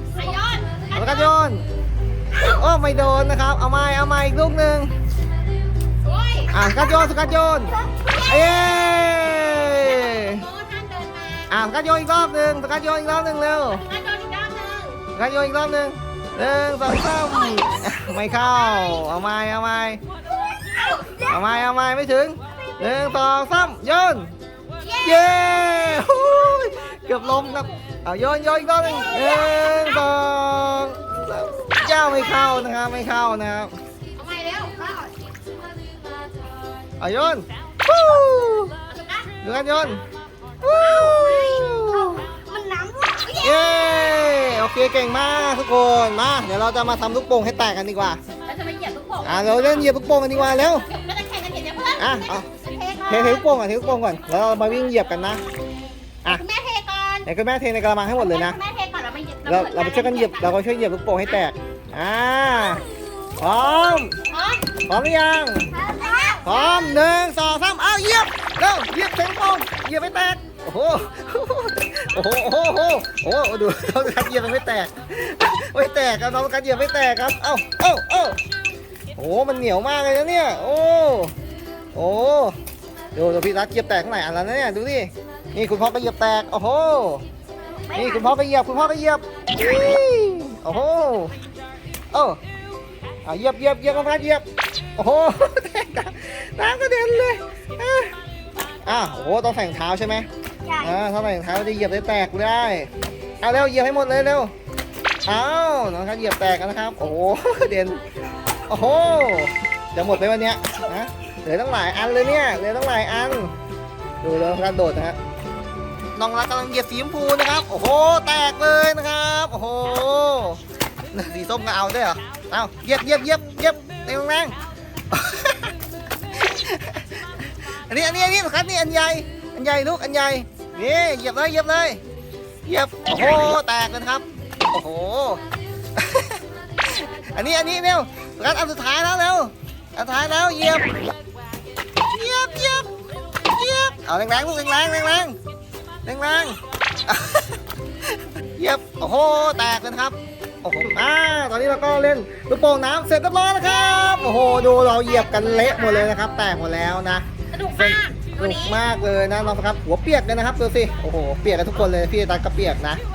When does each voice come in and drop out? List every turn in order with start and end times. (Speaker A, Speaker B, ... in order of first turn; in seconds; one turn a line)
Speaker A: 0.1-1.3
Speaker B: 0.9-1.6
Speaker B: 2.4-4.9
Speaker A: 6.0-7.0
Speaker B: 6.5-7.7
Speaker A: 8.0-11.5
Speaker B: 8.3-10.4
Speaker B: 11.5-13.8
Speaker A: 13.8-15.0
Speaker B: 15.1-20.0
Speaker A: 17.4-17.7
Speaker A: 18.3-19.1
Speaker C: 20.3-21.4
Speaker A: 20.8-21.1
Speaker B: 21.2-24.3
Speaker A: 24.8-26.2
Speaker B: 25.0-33.7
Speaker A: 27.3-27.8
Speaker A: 28.8-30.1
Speaker A: 31.7-32.6
Speaker A: 34.1-35.1
Speaker B: 37.0-38.7
Speaker A: 38.9-39.3
Speaker B: 39.4-40.0
Speaker B: 40.6-42.2
Speaker A: 40.7-41.7
Speaker C: 42.5-44.1
Speaker B: 43.4-48.2
Speaker A: 48.4-53.4
Speaker B: 49.2-50.8
Speaker B: 52.0-52.5
Speaker B: 53.1-55.4
Speaker A: 56.3-57.3
Speaker B: 57.2-58.6
Speaker A: 58.1-60.6
Speaker B: 59.5-62.8
Speaker C: 62.6-63.4
Speaker B: 63.4-64.2
Speaker A: 64.3-64.6
Speaker B: 64.8-65.7
Speaker C: 65.7-66.7
Speaker A: 65.9-67.0
Speaker B: 66.4-78.4
Speaker B: 79.2-81.3
Speaker B: 81.9-82.5
Speaker B: 83.1-87.2
Speaker C: 87.9-88.3
Speaker B: 87.9-91.3
Speaker B: 92.1-92.4
Speaker B: 93.2-94.4
Speaker B: 95.0-98.1
Speaker B: 98.8-100.3
Speaker C: 100.6-101.0
Speaker B: 100.8-102.9
Speaker B: 103.4-104.5
Speaker B: 105.2-108.0
Speaker B: 108.7-113.5
Speaker B: 114.2-115.2
Speaker B: 116.2-120.6
Speaker B: 121.1-124.5
Speaker B: 125.1-125.7
Speaker B: 126.3-127.0
Speaker B: 127.9-132.0
Speaker B: 132.7-135.4
Speaker B: 136.0-140.9
Speaker B: 142.1-142.9
Speaker B: 143.5-145.4
Speaker B: 146.1-147.6
Speaker B: 148.6-163.0
Speaker A: 153.6-156.1
Speaker A: 157.5-158.8